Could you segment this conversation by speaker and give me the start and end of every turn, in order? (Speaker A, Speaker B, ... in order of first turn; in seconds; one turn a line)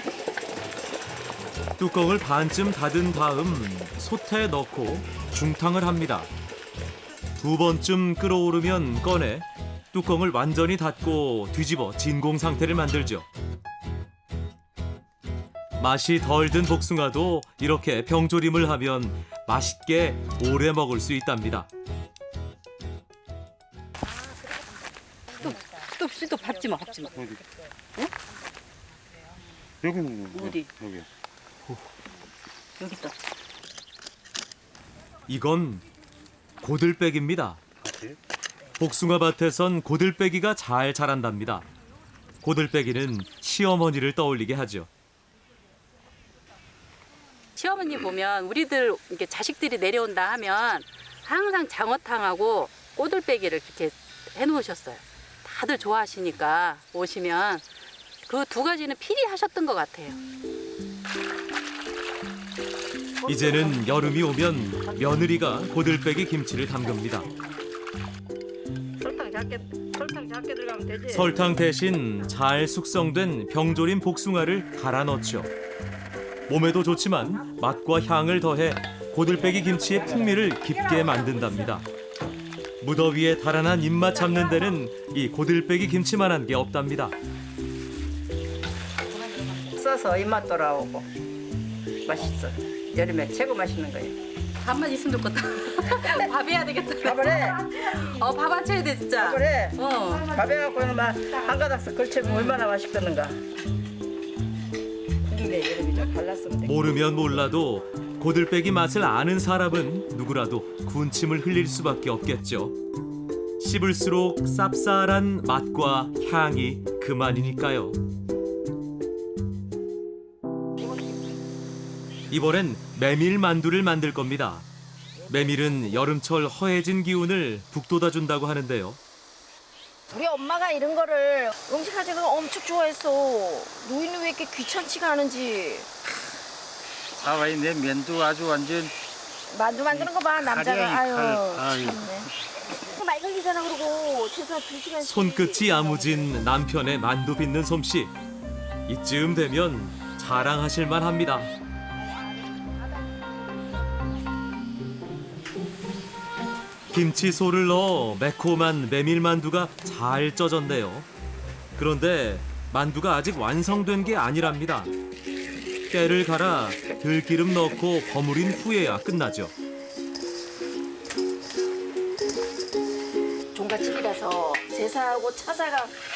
Speaker A: 1.8-6.3
Speaker A: 7.4-13.3
Speaker A: 15.8-21.7
Speaker B: 25.3-27.3
Speaker B: 30.3-30.7
Speaker B: 32.8-33.1
Speaker A: 35.3-35.8
Speaker A: 36.6-37.6
Speaker A: 38.8-41.7
Speaker A: 42.4-44.9
Speaker B: 47.6-57.6
Speaker B: 58.3-60.2
Speaker A: 63.2-67.3
Speaker C: 69.0-71.3
Speaker A: 71.1-75.5
Speaker A: 76.5-81.9
Speaker A: 82.8-87.2
Speaker C: 89.7-91.1
Speaker C: 92.1-94.2
Speaker B: 94.6-100.3
Speaker C: 97.0-97.7
Speaker C: 99.2-103.4
Speaker B: 102.2-102.5
Speaker C: 105.3-106.7
Speaker A: 106.7-112.8
Speaker A: 113.6-118.0
Speaker A: 122.3-124.7
Speaker A: 125.3-129.0
Speaker D: 130.1-136.1
Speaker E: 137.2-138.9
Speaker D: 139.5-142.3
Speaker E: 139.9-142.0
Speaker D: 142.9-146.3
Speaker A: 145.0-148.1
Speaker A: 148.9-151.5
Speaker A: 156.9-161.1
Speaker A: 161.8-164.9
Speaker A: 165.9-169.5
Speaker D: 173.5-175.9